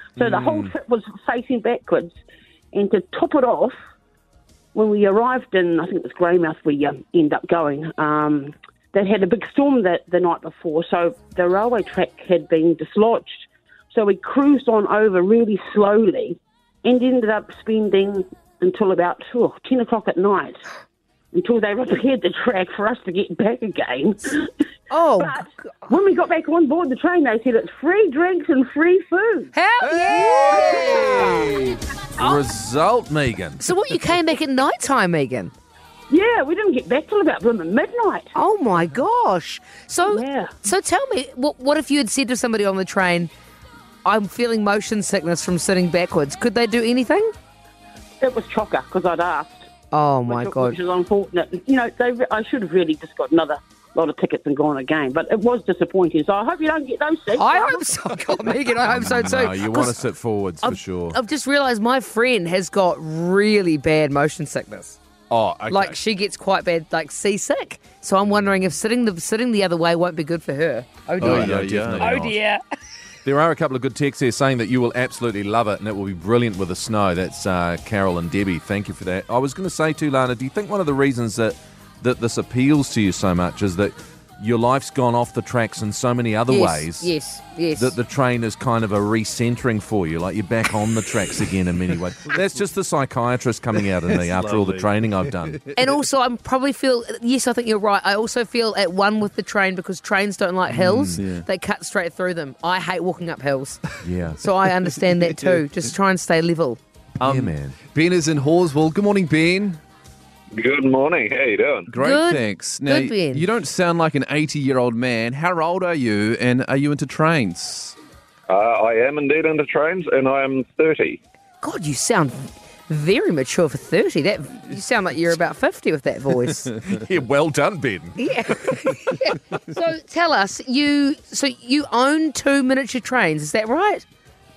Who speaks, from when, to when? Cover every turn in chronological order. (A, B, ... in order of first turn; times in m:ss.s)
0:00.2-0:02.1 A
0:00.2-0:00.7 B
0:02.7-0:03.7 A
0:04.7-0:20.6 A
0:21.3-0:24.6 A
0:24.9-0:25.5 C
0:25.2-0:29.5 A
0:29.5-0:31.5 C
0:29.8-0:33.6 B
0:30.3-0:31.5 A
0:33.6-0:35.5 C
0:36.1-0:38.3 A
0:38.3-0:43.3 C
0:40.1-0:40.6 A
0:44.0-0:47.3 C
0:48.2-0:49.7 A
0:49.9-0:50.8 C
0:50.2-0:57.9 A
0:57.3-1:00.0 C
0:58.9-1:01.2 B
1:00.6-1:05.0 C
1:05.3-1:06.0 B
1:05.7-1:12.6 C
1:11.2-1:12.3 B
1:11.2-1:12.3 D
1:13.2-1:27.1 B
1:26.5-1:28.0 C
1:27.8-1:35.6 B
1:34.1-1:35.7 D
1:35.7-1:46.8 C
1:40.7-1:41.2 B
1:41.2-1:41.4 D
1:44.0-1:44.4 B
1:47.2-1:49.8 D
1:47.2-1:47.8 B
1:50.5-1:51.9 E
1:51.9-1:58.0 D
1:52.0-1:53.5 C
1:58.5-2:01.2 E
2:01.6-2:06.7 C
2:06.8-2:09.2 B
2:08.2-2:14.0 C